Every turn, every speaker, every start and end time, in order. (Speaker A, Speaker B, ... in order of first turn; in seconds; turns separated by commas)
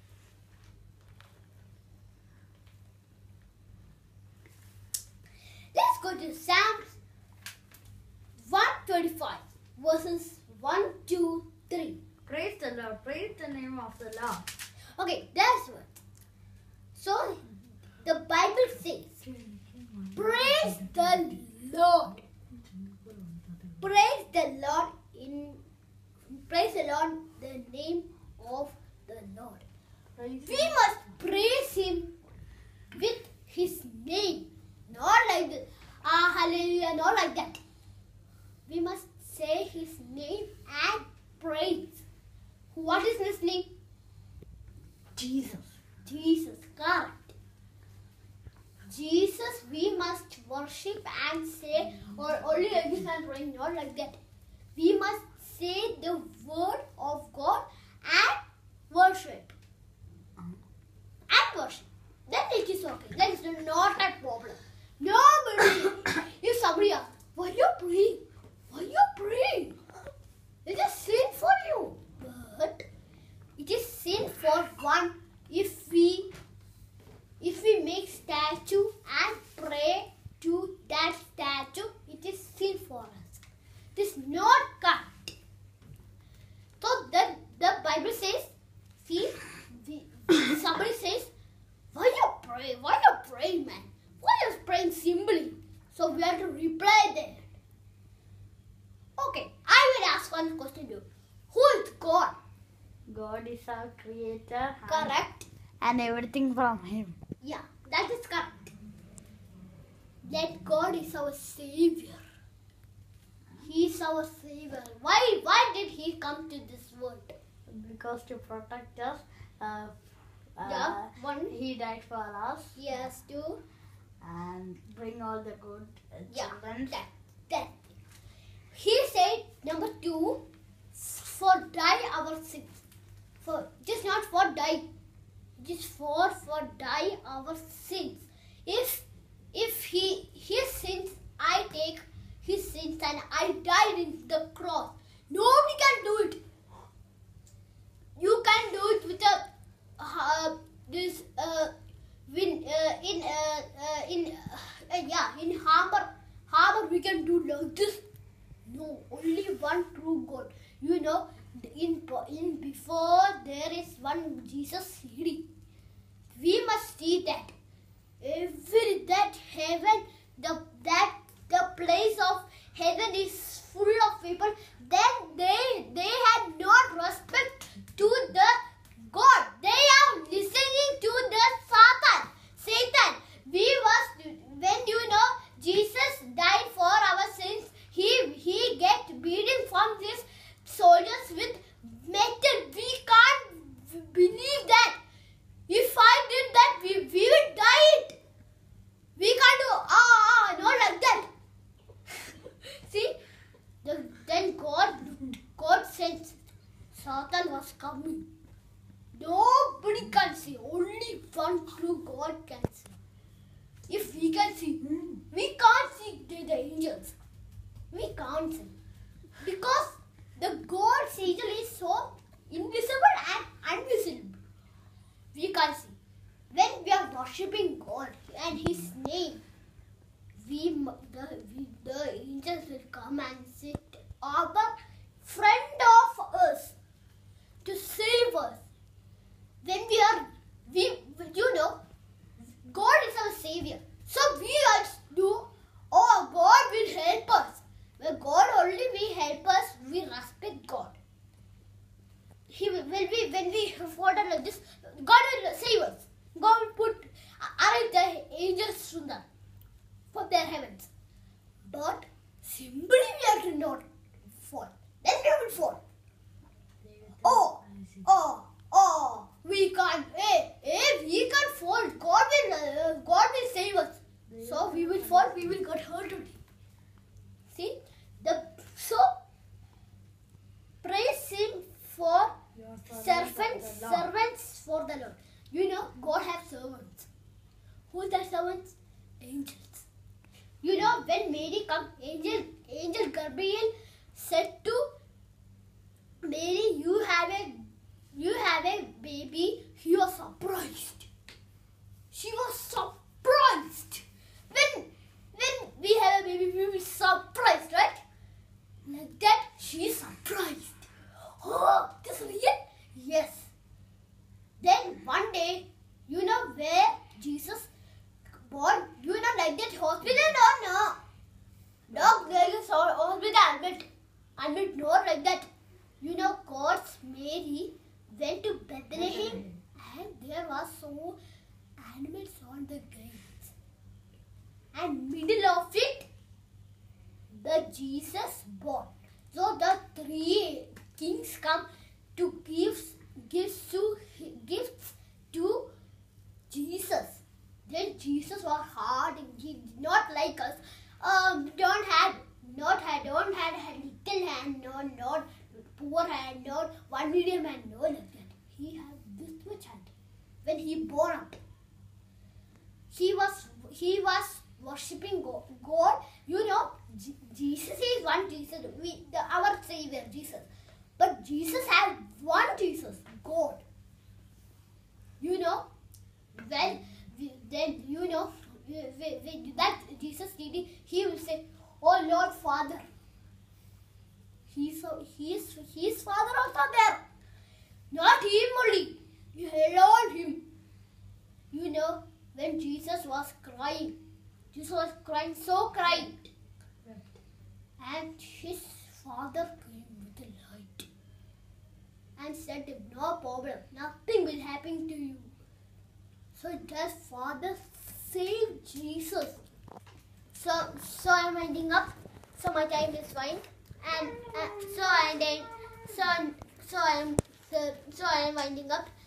Speaker A: 5.7-7.0, Speaker A: 8.4-12.0, Speaker B: 12.3-14.5, Speaker A: 14.9-16.0, Speaker A: 16.9-17.4, Speaker A: 18.0-19.2, Speaker B: 19.2-21.2, Speaker A: 20.1-22.2, Speaker B: 22.6-23.8, Speaker A: 23.8-25.6, Speaker A: 26.3-29.6, Speaker B: 30.2-31.0, Speaker A: 30.4-32.1, Speaker A: 32.9-37.6, Speaker A: 38.7-42.0, Speaker A: 42.7-43.7, Speaker B: 45.1-45.7, Speaker A: 46.0-47.3, Speaker A: 48.9-54.2, Speaker A: 54.8-59.5, Speaker A: 61.3-69.8, Speaker A: 70.7-72.9, Speaker A: 73.6-76.3, Speaker A: 77.4-83.4, Speaker A: 84.0-85.3, Speaker A: 86.8-91.3, Speaker A: 91.9-97.5, Speaker A: 99.2-102.4, Speaker B: 103.1-105.2, Speaker A: 104.9-105.5, Speaker B: 105.8-107.2, Speaker A: 107.4-108.7, Speaker A: 110.2-112.2, Speaker A: 113.6-117.3, Speaker B: 117.7-120.0, Speaker B: 120.5-122.8, Speaker A: 120.6-121.5, Speaker A: 122.8-123.6, Speaker B: 124.2-127.0, Speaker A: 126.3-127.9, Speaker A: 128.7-132.8, Speaker A: 133.4-134.9, Speaker A: 135.6-146.4, Speaker A: 148.2-151.7, Speaker A: 152.3-158.0, Speaker A: 158.7-165.5, Speaker A: 166.3-167.5, Speaker A: 168.2-195.0, Speaker A: 195.7-198.2, Speaker A: 199.2-201.3, Speaker A: 202.6-203.2, Speaker A: 203.8-206.4, Speaker A: 206.9-208.3, Speaker A: 209.1-213.0, Speaker A: 213.9-217.2, Speaker A: 217.9-218.8, Speaker A: 219.4-224.4, Speaker A: 225.3-226.0, Speaker A: 226.5-229.4, Speaker A: 230.4-236.8, Speaker A: 237.6-238.6, Speaker A: 239.6-241.8, Speaker A: 242.7-251.0, Speaker A: 252.5-259.3, Speaker A: 260.1-260.9, Speaker A: 261.6-265.8, Speaker B: 266.8-268.1, Speaker A: 267.2-276.4, Speaker B: 274.3-275.5, Speaker A: 277.5-279.1, Speaker A: 280.8-282.4, Speaker B: 282.6-284.1, Speaker A: 282.9-287.1, Speaker A: 287.9-289.9, Speaker A: 290.6-294.9, Speaker A: 296.2-301.1, Speaker A: 302.1-308.0, Speaker A: 308.9-313.5, Speaker A: 314.6-317.7, Speaker A: 318.4-321.0, Speaker B: 321.9-322.3, Speaker A: 321.9-325.5, Speaker A: 326.0-331.2, Speaker B: 328.9-329.6, Speaker A: 331.8-333.5, Speaker A: 334.7-336.1, Speaker A: 337.4-345.7, Speaker A: 346.5-359.9, Speaker A: 360.4-361.4, Speaker A: 362.9-370.5, Speaker A: 371.0-373.6, Speaker A: 375.2-375.7, Speaker A: 376.3-382.9, Speaker A: 384.5-387.0, Speaker A: 387.9-390.5, Speaker A: 391.5-394.0, Speaker A: 394.5-396.3, Speaker B: 396.9-397.2, Speaker A: 397.8-400.9, Speaker A: 402.2-405.3, Speaker A: 406.3-409.4, Speaker A: 410.3-418.9